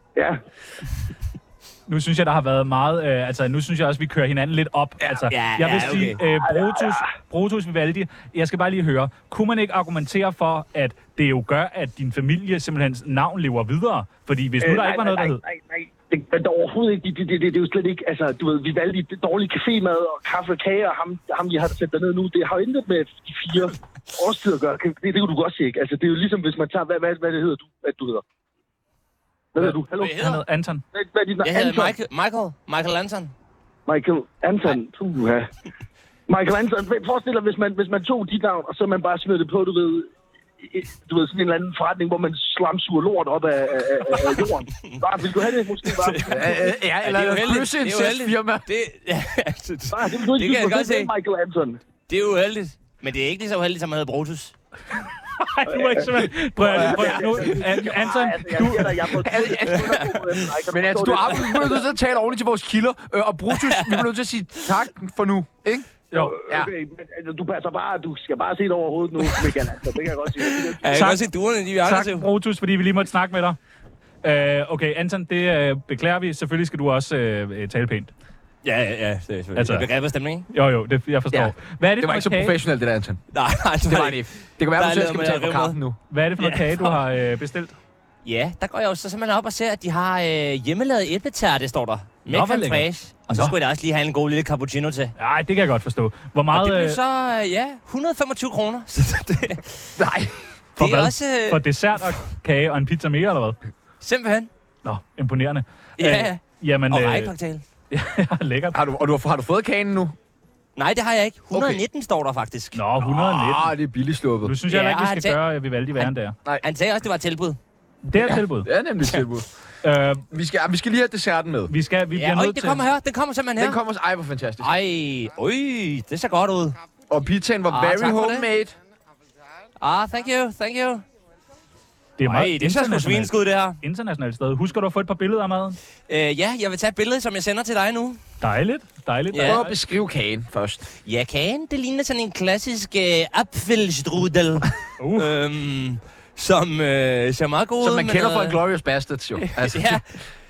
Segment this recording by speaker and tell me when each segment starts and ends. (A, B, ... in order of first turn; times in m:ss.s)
0:00.2-0:00.4 A
0:01.9-0:15.4 B
0:05.3-0:06.2 C
0:06.2-0:07.1 A
0:14.6-0:28.2 A
0:29.6-0:30.4 A
0:29.6-0:30.8 B
0:30.0-0:30.4 C
0:30.9-0:32.0 A
0:31.4-0:33.3 C
0:33.9-0:35.5 A
0:36.3-0:40.1 A
0:40.6-0:46.7 A
0:44.1-0:51.1 C
0:46.3-0:48.7 D
0:49.9-0:51.8 A
0:52.1-0:54.6 C
0:55.4-0:59.1 B
0:55.7-1:01.9 A
0:59.2-0:59.9 D
0:59.8-1:00.5 C
1:00.7-1:05.9 D
1:03.5-1:04.1 C
1:06.1-1:11.0 A
1:09.3-1:09.5 C
1:10.4-1:12.3 C
1:10.9-1:11.2 B
1:11.8-1:13.6 B
1:14.2-1:18.1 B
1:18.6-1:20.5 C
1:19.6-1:19.9 B
1:20.5-1:22.6 B
1:22.0-1:23.2 D
1:23.3-1:25.8 C
1:23.8-1:26.0 D
1:26.1-1:27.8 B
1:26.4-1:27.0 C
1:28.2-1:35.1 C
1:32.3-1:33.5 B
1:35.2-1:37.0 B
1:36.5-1:39.8 C
1:40.0-1:40.4 D
1:40.8-1:41.6 C
1:40.8-1:43.6 B
1:44.0-1:44.5 C
1:44.8-1:47.3 B
1:46.0-1:47.6 C
1:47.9-1:48.8 B
1:48.7-1:50.2 D
1:50.8-1:52.8 C
1:51.5-1:51.8 D
1:52.8-1:53.7 B
1:53.0-1:54.6 D
1:54.4-1:56.4 B
1:54.7-1:55.4 C
1:56.0-1:57.6 C
1:58.0-1:58.7 B
1:58.2-1:59.5 D
1:59.8-2:00.2 B
2:00.3-2:01.7 D
2:01.7-2:02.8 B
2:02.1-2:03.8 C
2:03.6-2:04.7 D
2:04.6-2:06.8 C
2:07.1-2:08.8 D
2:07.7-2:08.5 C
2:09.8-2:11.0 C
2:12.2-2:15.8 B
2:12.2-2:13.8 C
2:16.1-2:18.2 C
2:18.4-2:19.8 B
2:19.3-2:19.6 C
2:19.4-2:20.9 D
2:21.0-2:28.6 C
2:25.0-2:25.4 B
2:27.8-2:30.0 D
2:29.4-2:30.0 C